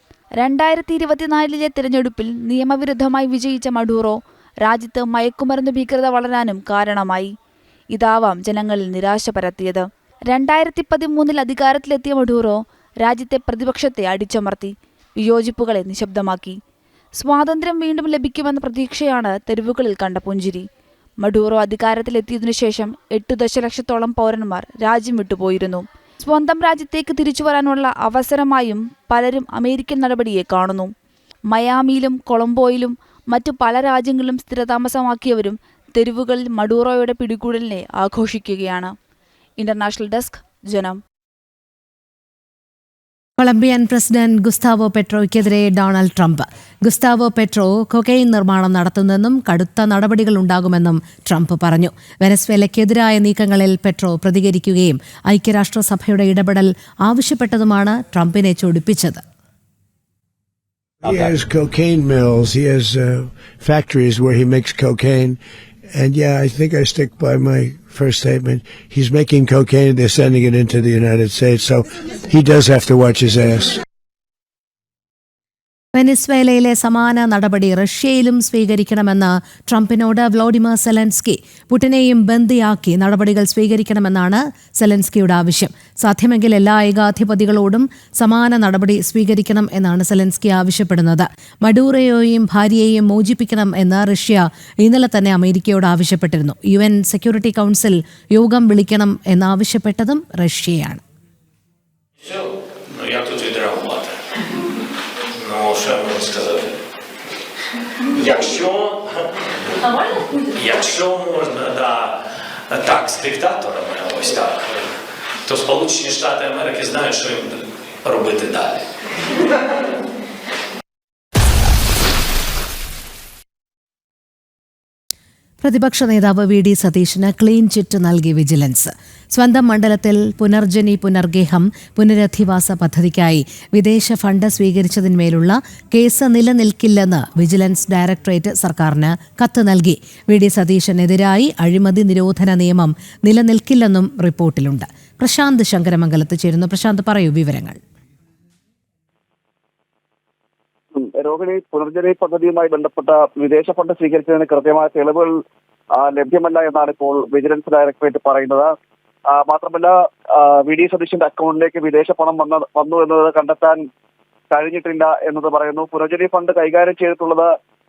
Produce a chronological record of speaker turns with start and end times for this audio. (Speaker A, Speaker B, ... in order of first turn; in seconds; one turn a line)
Speaker A: 0.4-7.3
Speaker A: 7.9-16.6
Speaker A: 17.2-20.7
Speaker A: 21.2-30.9
Speaker A: 31.5-38.9
Speaker A: 39.6-41.0
Speaker B: 43.4-59.2
Speaker C: 61.0-73.8
Speaker B: 75.9-101.0
Speaker D: 102.2-104.3
Speaker D: 105.3-106.8
Speaker D: 108.1-112.2
Speaker D: 112.7-114.9
Speaker D: 115.4-118.9
Speaker B: 125.6-147.8
Speaker E: 150.9-155.4
Speaker E: 155.9-158.7
Speaker E: 159.3-163.8
Speaker E: 164.5-167.5